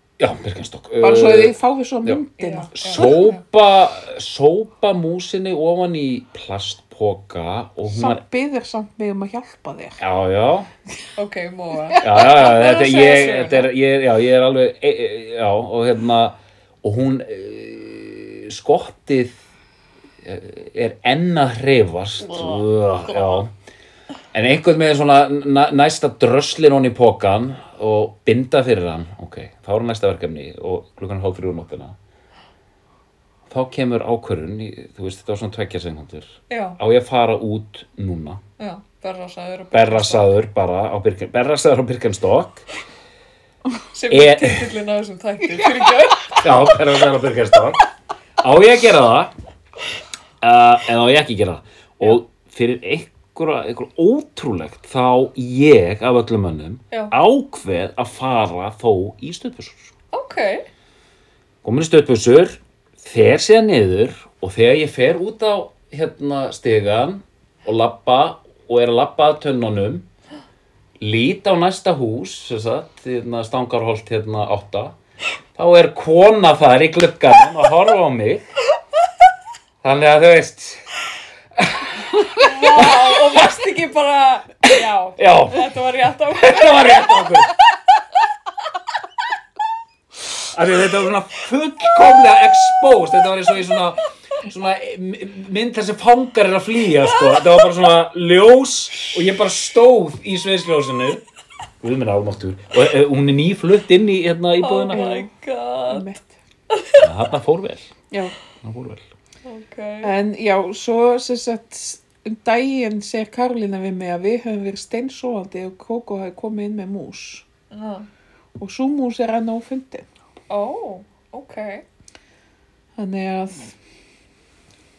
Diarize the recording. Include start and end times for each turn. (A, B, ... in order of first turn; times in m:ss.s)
0:00.2-0:02.2 A
0:01.0-0:03.2 B
0:02.4-0:03.4 C
0:02.7-0:08.2 A
0:07.9-0:10.0 B
0:10.0-0:10.7 A
0:11.2-0:13.7 C
0:11.9-0:12.3 B
0:12.0-0:19.4 A
0:20.2-0:23.5 A
0:22.3-0:23.4 C
0:24.3-0:32.0 A
0:33.5-0:38.4 A
0:36.5-0:36.8 C
0:38.6-0:40.3 C
0:39.7-0:42.7 A
0:43.9-0:46.5 C
0:44.1-0:44.7 A
0:46.4-0:47.8 A
0:48.4-0:49.3 A
0:50.4-0:59.9 A
1:00.1-1:00.7 C
1:01.6-1:10.0 A
1:11.0-1:15.0 A
1:15.5-1:18.4 A
1:19.8-1:20.9 A
1:21.6-1:23.4 A
1:22.3-1:27.3 C
1:24.8-1:25.8 A
1:26.3-1:27.5 A
1:30.4-1:41.2 A
1:41.8-1:45.0 A
1:44.6-1:46.1 C
1:44.9-1:45.3 B
1:45.9-1:46.3 B
1:46.7-1:47.0 C
1:47.0-1:47.9 A
1:48.1-1:48.4 B
1:48.6-1:49.0 A
1:49.4-1:50.1 C
1:50.0-1:57.4 B
1:57.7-1:58.1 C
1:58.6-2:00.1 B
2:00.5-2:01.8 C
2:03.0-2:03.7 B